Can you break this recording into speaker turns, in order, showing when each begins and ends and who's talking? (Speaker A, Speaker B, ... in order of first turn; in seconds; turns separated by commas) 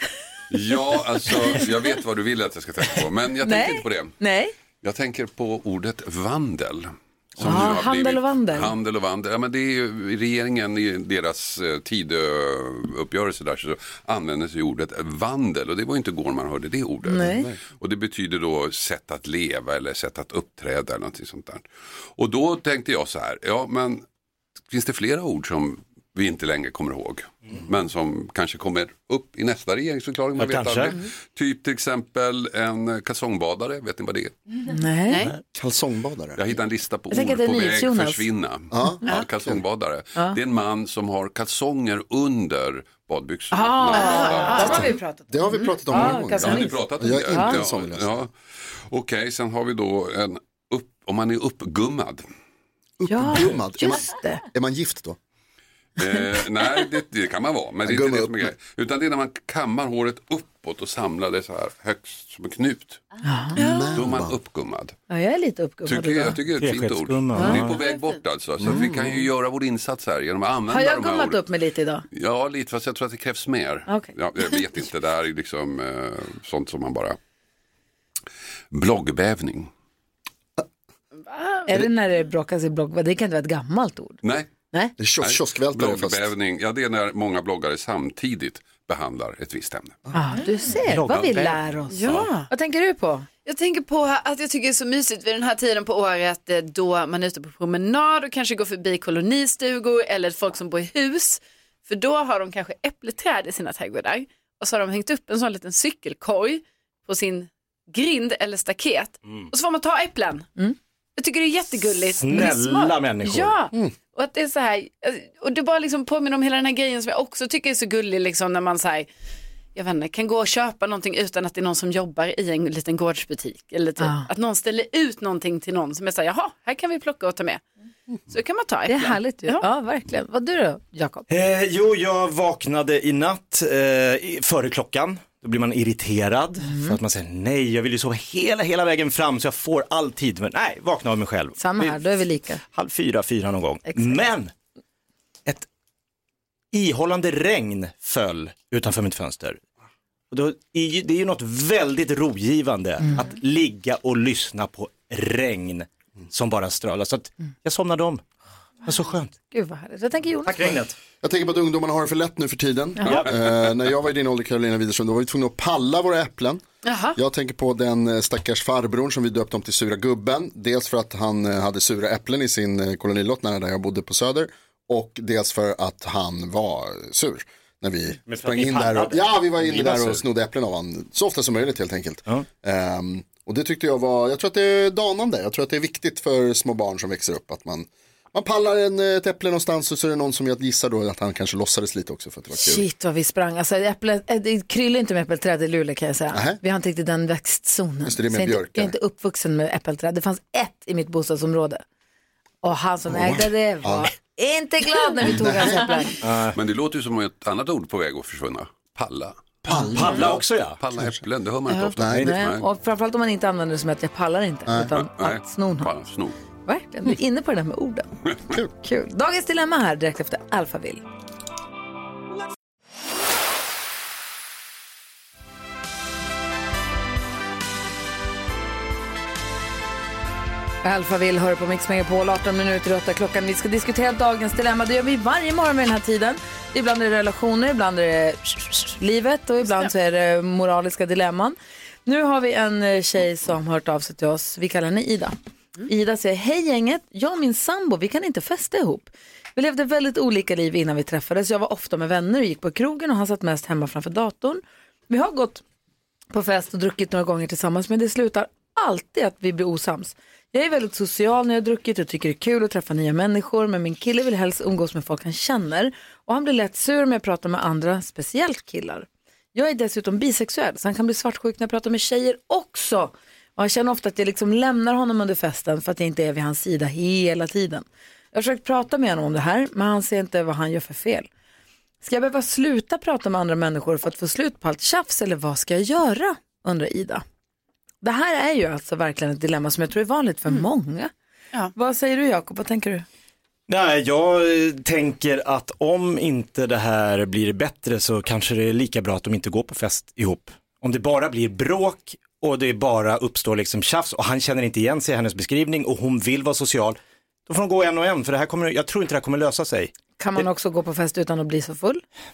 Speaker A: 0.5-4.2, Speaker B: 3.4-4.5, Speaker A: 4.8-24.0, Speaker B: 7.4-8.8, Speaker B: 17.1-17.5, Speaker A: 24.7-34.4, Speaker C: 30.4-31.0, Speaker B: 34.7-35.2, Speaker D: 35.1-35.3, Speaker E: 35.5-36.4, Speaker A: 36.4-44.9, Speaker B: 37.1-38.2, Speaker E: 38.7-39.6, Speaker B: 43.5-47.6, Speaker D: 43.9-44.9, Speaker E: 44.6-48.1, Speaker A: 46.0-52.3, Speaker E: 53.0-55.2, Speaker B: 53.1-54.4, Speaker A: 56.0-63.0, Speaker E: 57.8-58.5, Speaker B: 63.2-63.6, Speaker D: 63.6-64.0, Speaker E: 63.6-64.4, Speaker A: 63.9-65.0, Speaker B: 65.1-66.4, Speaker A: 65.8-71.4, Speaker C: 66.6-67.8, Speaker B: 67.3-67.6, Speaker D: 67.8-68.2, Speaker E: 68.6-69.3, Speaker B: 70.7-72.0, Speaker A: 72.1-77.2, Speaker A: 78.7-79.7, Speaker D: 81.3-81.7, Speaker B: 81.7-84.2, Speaker A: 84.2-84.5, Speaker E: 85.0-86.3, Speaker A: 85.2-90.0, Speaker B: 90.1-93.3, Speaker C: 90.9-91.6, Speaker D: 91.9-92.5, Speaker A: 92.0-92.3, Speaker D: 93.5-110.5, Speaker D: 111.2-119.1, Speaker C: 112.1-113.6, Speaker D: 119.8-127.6, Speaker B: 124.0-124.3, Speaker D: 128.3-129.7, Speaker B: 128.9-131.3, Speaker C: 131.3-142.0, Speaker B: 136.6-137.0, Speaker B: 141.6-142.6, Speaker C: 142.6-144.5, Speaker B: 143.9-144.2, Speaker C: 146.7-149.6, Speaker C: 150.3-158.2, Speaker C: 158.8-159.3, Speaker B: 159.5-160.8, Speaker C: 160.5-160.9, Speaker E: 161.2-166.6, Speaker D: 166.8-167.2, Speaker E: 167.2-192.9, Speaker C: 178.3-180.2, Speaker B: 192.5-201.8, Speaker E: 196.3-196.6, Speaker E: 198.0-198.9, Speaker B: 202.6-206.2, Speaker E: 203.1-204.1, Speaker E: 205.2-205.9, Speaker C: 206.2-206.6, Speaker A: 206.5-212.7, Speaker E: 209.6-210.3, Speaker C: 209.9-210.8, Speaker E: 210.9-211.2, Speaker E: 212.0-212.3, Speaker C: 212.1-212.3, Speaker B: 212.2-215.9, Speaker E: 214.7-214.9, Speaker A: 215.0-216.4, Speaker B: 216.7-221.0, Speaker B: 230.8-245.3, Speaker B: 245.9-255.6, Speaker B: 256.3-281.3, Speaker B: 282.0-287.2, Speaker B: 288.0-291.1, Speaker B: 291.8-293.1, Speaker C: 293.7-310.4, Speaker B: 310.2-312.0